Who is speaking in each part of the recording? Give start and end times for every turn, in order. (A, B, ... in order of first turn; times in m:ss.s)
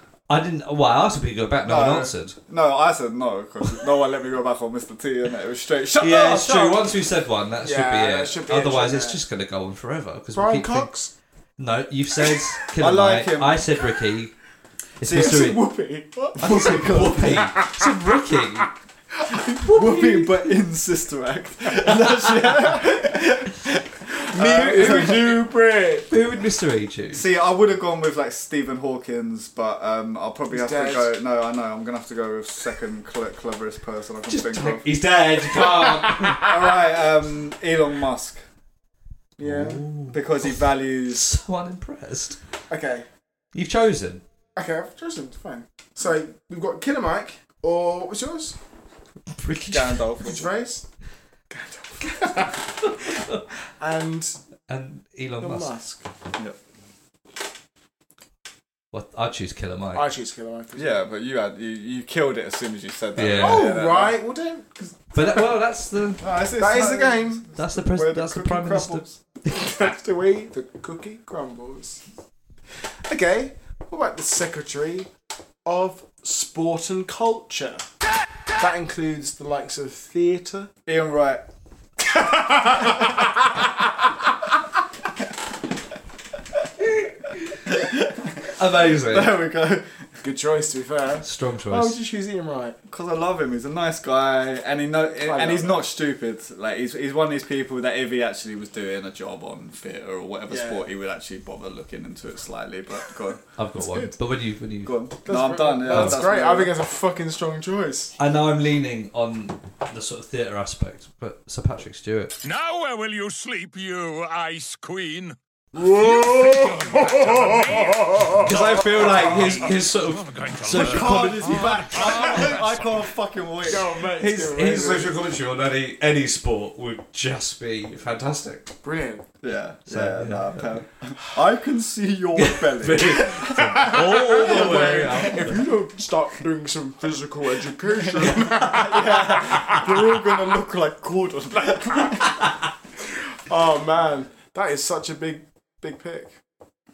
0:00.3-0:02.4 A
0:01.6-0:06.8 B
0:06.0-0:10.9 A
0:07.6-0:09.2 C
0:10.3-0:11.1 C
0:11.6-0:14.3 A
0:12.8-0:13.6 B
0:15.0-0:15.6 A
0:15.0-0:15.5 B
0:15.1-0:17.9 C
0:16.2-0:17.5 B
0:16.4-0:18.7 A
0:19.3-0:19.6 C
0:19.6-0:25.5 B
0:19.6-0:20.4 A
0:24.3-0:26.1 C
0:26.1-0:27.3 A
0:27.1-0:34.8 B
0:30.5-0:31.1 C
0:34.3-0:36.5 A
0:36.4-0:38.4 B
0:39.4-0:39.8 C
0:39.4-0:42.4 A
0:40.1-0:41.3 B
0:42.7-0:43.1 C
0:43.5-0:44.2 A
0:44.5-0:48.6 C
0:49.3-0:50.2 A
0:49.7-0:50.5 B
0:50.2-0:50.8 C
0:51.5-0:52.9 C
0:52.9-0:53.4 A
0:53.8-0:54.4 C
0:54.7-0:55.7 A
0:55.4-0:56.0 C
0:58.9-1:00.1 A
0:59.9-1:01.0 C
1:00.7-1:04.2 B
1:03.2-1:03.7 A
1:03.3-1:04.9 C
1:05.1-1:06.2 A
1:06.2-1:09.2 B
1:06.5-1:07.4 C
1:07.6-1:09.0 A
1:09.5-1:12.0 C
1:13.0-1:15.1 C
1:15.6-1:17.9 C
1:18.6-1:20.7 C
1:20.8-1:21.4 B
1:22.1-1:23.1 C
1:27.6-1:29.9 B
1:28.6-1:29.4 A
1:30.2-1:32.8 C
1:31.2-1:32.0 A
1:32.9-1:43.4 B
1:35.2-1:35.9 C
1:40.5-1:40.8 C
1:43.6-1:45.1 A
1:43.8-1:44.1 C
1:44.8-1:46.7 B
1:45.2-1:48.1 C
1:45.8-1:46.2 A
1:48.2-1:52.4 A
1:52.4-2:02.8 D
1:55.7-1:58.5 C
1:58.3-2:01.6 A
1:58.5-1:59.6 B
2:00.7-2:03.9 B
2:03.6-2:05.2 C
2:04.2-2:08.7 A
2:08.8-2:09.2 C
2:09.4-2:15.3 B
2:09.9-2:10.8 A
2:12.4-2:15.6 A
2:13.6-2:19.9 C
2:18.2-2:18.9 A
2:18.2-2:22.5 B
2:21.6-2:22.2 C
2:23.4-2:26.4 C